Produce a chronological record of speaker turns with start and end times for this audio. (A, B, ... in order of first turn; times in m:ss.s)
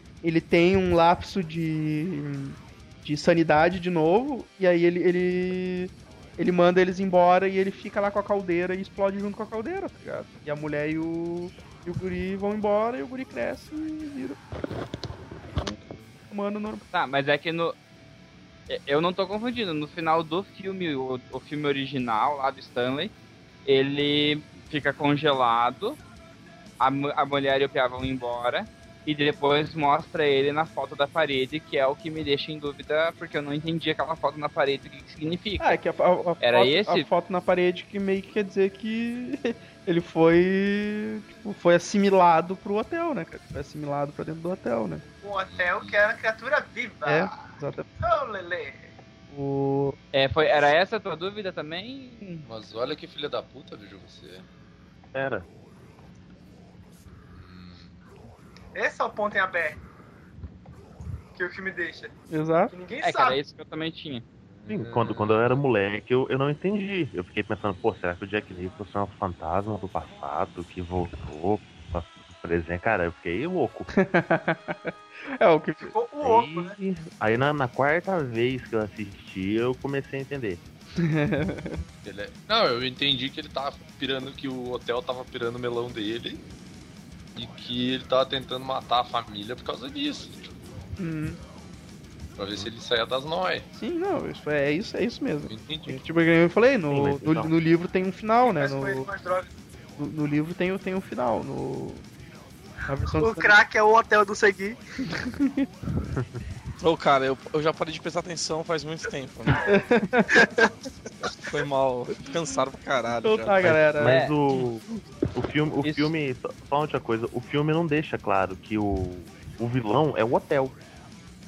0:00.2-0:14.4 A
0:16.3-0:16.8 A
0:16.9-0:17.8 B
0:18.7-0:23.1 B
0:23.6-0:26.0 B
0:26.8-0:35.8 B
0:35.6-0:45.0 A
0:36.4-0:37.1 B
0:45.2-0:47.4 C
0:45.5-0:46.0 D
0:47.0-0:47.9 A
0:48.0-0:48.9 C
0:49.3-0:50.0 A
0:50.1-0:52.4 B
0:52.4-0:54.4 D
0:55.1-0:55.4 E
0:57.3-0:58.0 D
0:58.7-0:59.8 C
1:01.3-1:02.1 C
1:02.3-1:02.7 A
1:02.7-1:03.4 C
1:03.0-1:04.2 B
1:04.5-1:05.6 D
1:04.7-1:13.9 E
1:13.9-1:15.9 A
1:15.8-1:16.7 C
1:16.2-1:20.6 E
1:21.0-1:21.8 A
1:22.0-1:26.4 D
1:27.4-1:30.5 D
1:31.0-1:31.4 A
1:32.4-1:33.7 D
1:33.8-1:39.1 A
1:35.5-1:36.0 D
1:36.9-1:37.5 E
1:38.4-1:39.5 C
1:40.0-1:42.0 A
1:42.9-1:43.6 A
1:43.1-1:44.8 C
1:45.2-1:45.7 A
1:46.8-1:49.6 F
1:49.6-1:50.7 A
1:51.4-1:53.7 F
1:53.2-1:54.2 A
1:53.6-2:00.7 E
1:54.0-1:54.3 B
1:55.8-1:56.1 B